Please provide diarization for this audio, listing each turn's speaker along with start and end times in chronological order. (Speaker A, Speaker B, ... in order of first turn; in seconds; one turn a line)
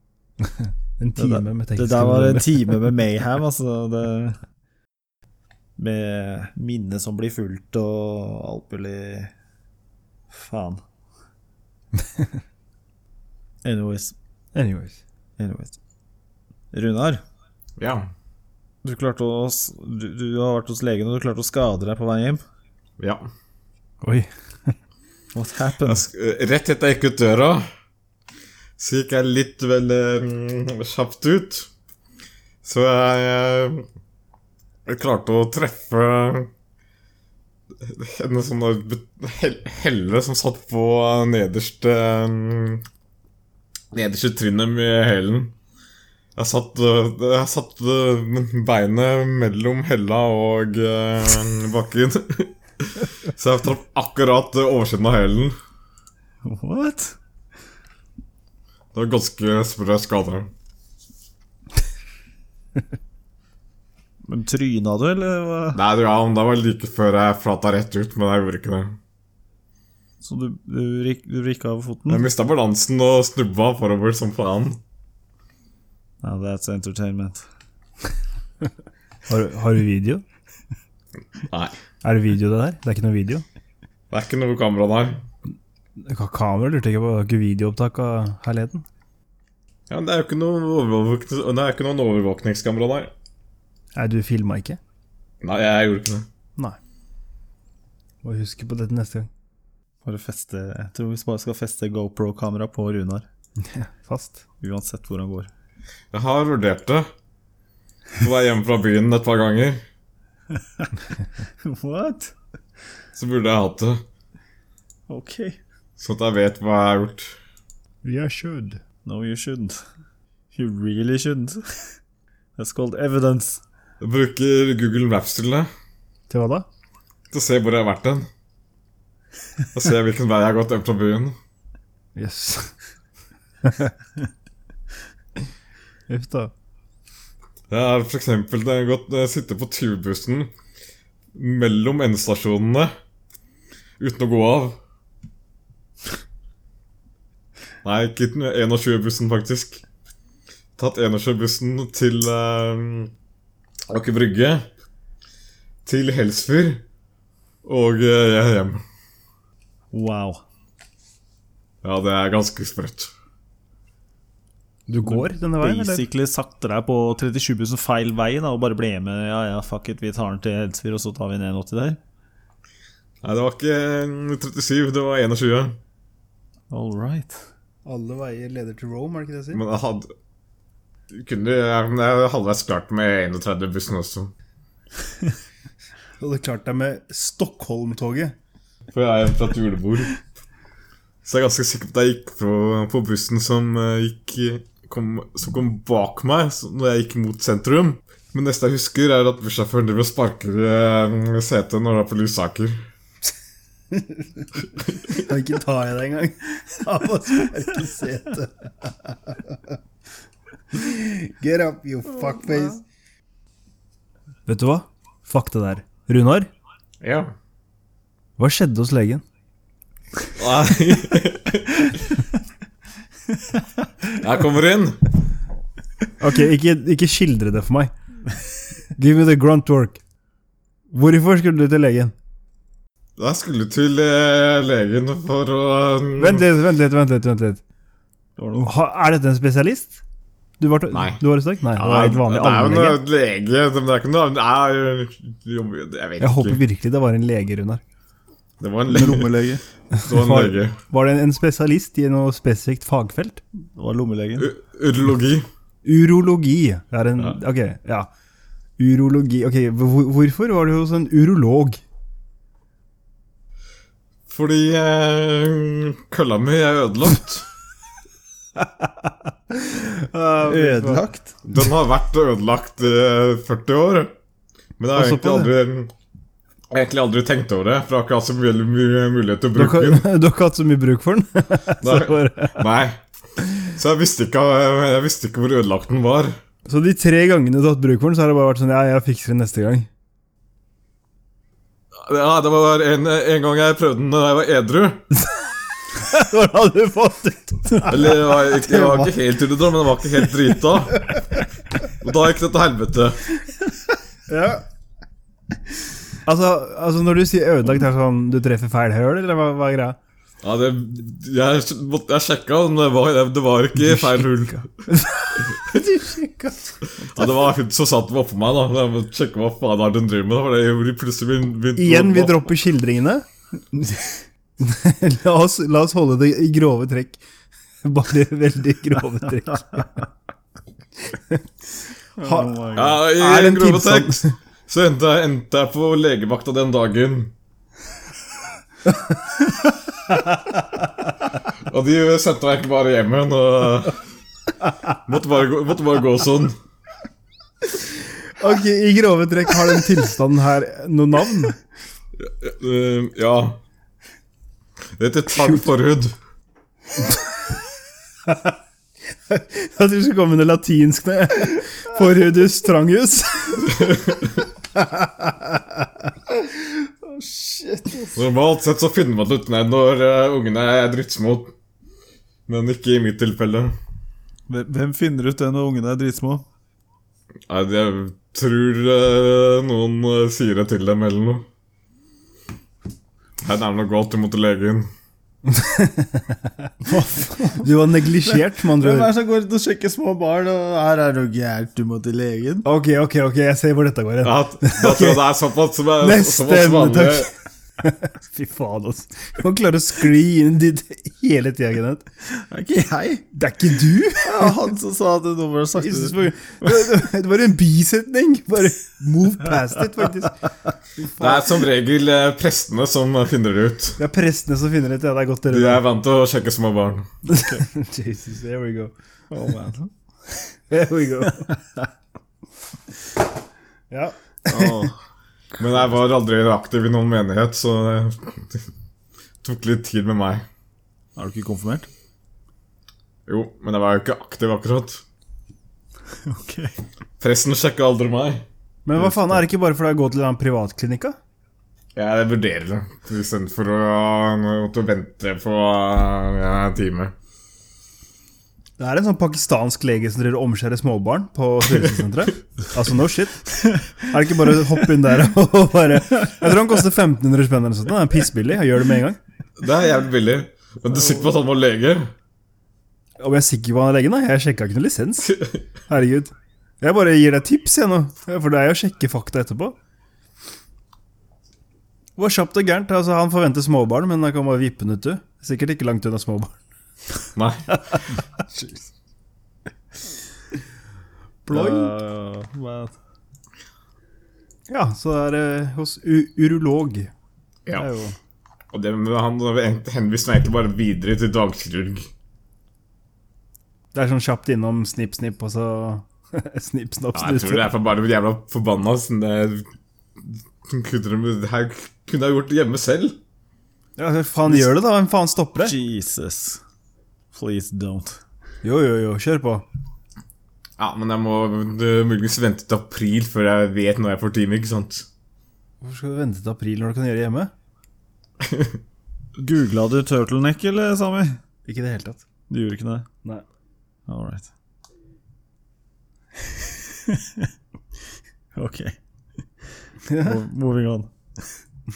Speaker A: 0.4-2.8
Speaker B: 1.2-4.4
Speaker B: 5.8-9.3
Speaker B: 10.3-10.8
Speaker B: 13.6-14.1
Speaker A: 14.5-15.0
Speaker B: 15.4-15.8
Speaker B: 16.7-17.2
Speaker C: 17.8-18.1
Speaker B: 18.8-22.4
Speaker C: 23.0-23.2
Speaker A: 24.0-24.7
Speaker B: 25.3-26.1
Speaker C: 25.8-27.6
Speaker C: 28.8-31.7
Speaker C: 32.6-33.8
Speaker C: 34.9-36.5
Speaker C: 37.8-42.8
Speaker C: 43.9-45.5
Speaker C: 46.4-55.5
Speaker B: 56.4-57.2
Speaker C: 58.9-60.5
Speaker B: 64.3-65.8
Speaker C: 65.7-69.0
Speaker B: 70.2-72.3
Speaker C: 72.1-74.8
Speaker B: 76.2-77.4
Speaker A: 79.2-80.2
Speaker C: 81.4-81.8
Speaker A: 82.0-83.4
Speaker C: 84.1-85.2
Speaker A: 86.0-88.8
Speaker C: 89.9-93.1
Speaker A: 93.9-94.8
Speaker C: 95.4-96.3
Speaker A: 98.2-99.3
Speaker B: 100.0-103.3
Speaker A: 103.6-104.4
Speaker B: 104.6-105.5
Speaker C: 106.1-107.1
Speaker C: 108.2-109.8
Speaker B: 110.5-110.9
Speaker B: 111.6-112.3
Speaker C: 113.1-114.0
Speaker B: 115.1-115.6
Speaker C: 116.0-117.3
Speaker A: 118.0-118.8
Speaker B: 119.0-119.8
Speaker B: 120.5-121.9
Speaker B: 122.6-123.6
Speaker C: 124.0-125.7
Speaker A: 126.3-126.7
Speaker C: 127.3-128.3
Speaker C: 129.7-131.3
Speaker A: 132.2-132.7
Speaker A: 133.6-133.9
Speaker A: 136.1-136.5
Speaker C: 137.7-140.5
Speaker C: 141.3-142.9
Speaker C: 144.0-144.8
Speaker C: 147.8-149.8
Speaker C: 150.8-153.1
Speaker C: 153.9-154.7
Speaker C: 155.8-156.8
Speaker C: 157.6-158.8
Speaker B: 159.9-160.4
Speaker C: 161.8-163.1
Speaker A: 164.9-166.0
Speaker B: 165.0-172.0
Speaker C: 173.2-175.8
Speaker B: 176.7-177.4
Speaker A: 177.8-179.6
Speaker C: 179.5-180.1
Speaker C: 181.1-184.3
Speaker A: 186.2-188.3
Speaker C: 188.9-190.2
Speaker C: 191.2-202.8
Speaker A: 204.0-204.4
Speaker C: 204.8-205.2
Speaker A: 205.1-209.6
Speaker A: 210.7-212.8
Speaker A: 214.5-216.5
Speaker C: 217.0-217.3
Speaker A: 218.4-219.2
Speaker C: 220.3-222.1
Speaker C: 224.1-225.0
Speaker A: 226.2-227.9
Speaker A: 228.9-230.0
Speaker A: 230.9-232.1
Speaker C: 233.2-236.4
Speaker A: 236.2-237.6
Speaker B: 238.4-238.7
Speaker A: 238.6-240.0
Speaker A: 240.6-243.0
Speaker C: 240.9-241.2
Speaker C: 241.7-246.6
Speaker A: 246.2-247.8
Speaker C: 248.6-249.3
Speaker B: 248.9-249.6
Speaker A: 249.9-253.4
Speaker C: 250.0-250.8
Speaker B: 253.8-254.5
Speaker C: 254.4-255.5
Speaker A: 255.8-258.1
Speaker A: 258.8-261.8
Speaker C: 264.3-267.5
Speaker A: 269.5-271.1
Speaker B: 270.4-271.4
Speaker C: 271.5-274.1
Speaker C: 274.8-275.9
Speaker A: 274.9-275.5
Speaker C: 276.7-280.1
Speaker A: 279.6-282.6
Speaker C: 281.8-283.0
Speaker C: 283.6-286.4
Speaker A: 286.6-289.9
Speaker C: 292.0-295.0
Speaker A: 295.9-299.1
Speaker C: 297.9-301.0
Speaker C: 302.0-303.2
Speaker A: 304.3-304.6
Speaker A: 306.2-310.0
Speaker C: 310.4-314.7
Speaker A: 313.8-316.8
Speaker C: 315.4-315.8
Speaker C: 317.0-322.5
Speaker A: 321.8-323.2
Speaker A: 324.6-327.2
Speaker A: 327.8-330.1
Speaker A: 331.1-331.4
Speaker B: 332.2-333.0
Speaker A: 332.2-332.5
Speaker C: 332.7-337.3
Speaker A: 333.1-334.3
Speaker A: 338.9-339.5
Speaker A: 340.1-340.6
Speaker C: 341.6-344.0
Speaker C: 345.1-346.6
Speaker A: 348.4-351.6
Speaker C: 352.2-353.6
Speaker C: 355.0-356.1
Speaker A: 355.3-355.6
Speaker A: 357.0-357.5
Speaker A: 359.3-364.2
Speaker C: 363.7-364.2
Speaker A: 364.7-365.6
Speaker B: 367.1-368.2
Speaker C: 368.1-371.5
Speaker C: 372.5-373.7
Speaker B: 374.5-376.4
Speaker C: 377.5-381.4
Speaker C: 383.4-384.9
Speaker A: 385.4-389.1
Speaker B: 386.9-387.7
Speaker B: 388.2-392.6
Speaker A: 392.6-395.2
Speaker C: 394.2-397.3
Speaker A: 396.0-402.0
Speaker B: 402.4-403.3
Speaker A: 403.3-404.6
Speaker B: 404.2-406.8
Speaker A: 405.8-410.4
Speaker A: 411.0-411.6
Speaker C: 411.2-414.0
Speaker A: 414.0-415.8
Speaker C: 415.5-417.1
Speaker A: 417.2-418.9
Speaker B: 419.3-419.9
Speaker A: 420.7-421.5
Speaker A: 423.9-424.9
Speaker B: 424.5-424.9
Speaker C: 425.6-428.6
Speaker C: 429.4-430.4
Speaker B: 431.2-431.9
Speaker C: 433.3-435.0
Speaker B: 436.2-436.7
Speaker C: 437.2-438.4
Speaker A: 438.8-441.1
Speaker B: 439.0-439.4
Speaker C: 441.9-447.1
Speaker A: 448.8-459.2
Speaker C: 451.6-452.3
Speaker C: 459.6-462.1
Speaker A: 463.2-465.3
Speaker C: 465.2-465.6
Speaker A: 465.9-469.8
Speaker A: 472.2-476.5
Speaker C: 477.4-477.6
Speaker A: 477.7-478.7
Speaker A: 481.4-481.9
Speaker B: 481.5-482.9
Speaker A: 484.7-487.1
Speaker A: 487.7-488.1
Speaker C: 488.7-492.1
Speaker A: 493.9-497.7
Speaker C: 497.1-499.6
Speaker C: 500.2-503.2
Speaker A: 504.0-505.7
Speaker B: 505.6-506.6
Speaker B: 507.3-508.2
Speaker A: 508.6-509.6
Speaker C: 510.8-515.0
Speaker A: 515.8-517.5
Speaker C: 518.4-518.8
Speaker B: 519.4-521.4
Speaker A: 521.6-522.2
Speaker B: 522.5-523.1
Speaker B: 524.1-524.5
Speaker B: 526.7-527.5
Speaker B: 528.5-529.0
Speaker A: 530.1-530.3
Speaker B: 530.1-531.1